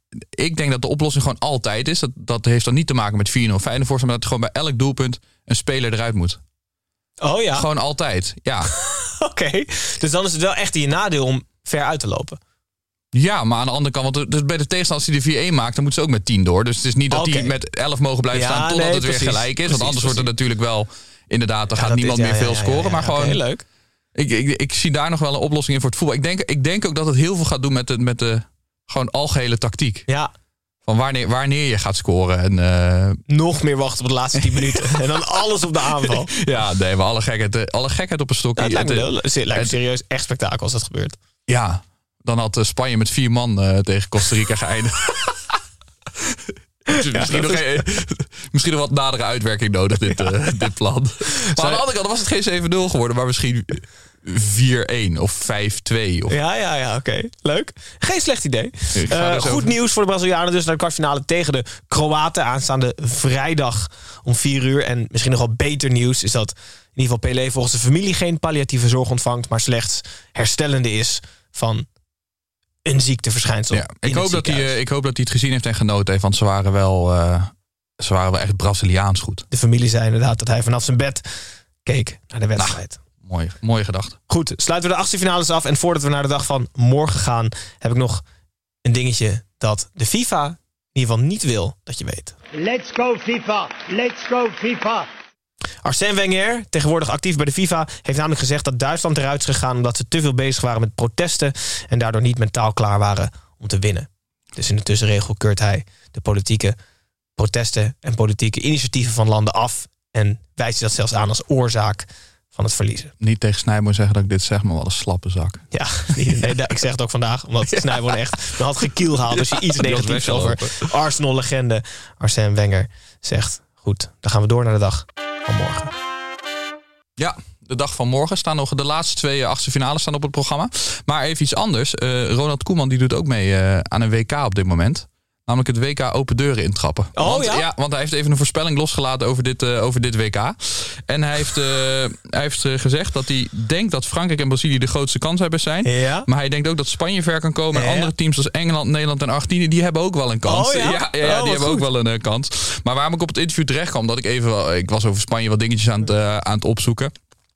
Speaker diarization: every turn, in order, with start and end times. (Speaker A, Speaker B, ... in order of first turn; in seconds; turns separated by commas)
Speaker A: 0.3-6.4, Speaker B: 7.2-7.7, Speaker A: 7.5-8.7, Speaker B: 8.9-12.4, Speaker A: 13.1-23.4, Speaker B: 17.1-17.5, Speaker B: 18.3-20.3, Speaker B: 21.8-23.6, Speaker A: 24.1-30.1, Speaker A: 30.9-33.2, Speaker B: 33.3-36.3, Speaker A: 34.4-35.2, Speaker A: 36.0-39.8, Speaker B: 38.6-41.2, Speaker A: 41.5-45.6, Speaker A: 46.2-56.4, Speaker B: 51.4-51.8, Speaker B: 56.3-71.9, Speaker A: 58.9-59.7, Speaker B: 72.8-74.7, Speaker A: 73.7-79.5, Speaker B: 79.5-81.3, Speaker B: 81.8-83.0, Speaker A: 82.5-84.2, Speaker B: 84.3-88.2, Speaker B: 88.8-92.3, Speaker C: 92.6-95.1, Speaker B: 95.8-106.8, Speaker B: 107.4-113.1, Speaker A: 113.2-116.5, Speaker B: 115.7-125.9, Speaker A: 117.7-118.5, Speaker A: 119.2-120.9, Speaker A: 127.2-157.1, Speaker B: 137.2-137.7, Speaker B: 145.8-146.3, Speaker B: 147.7-148.1, Speaker B: 150.4-151.9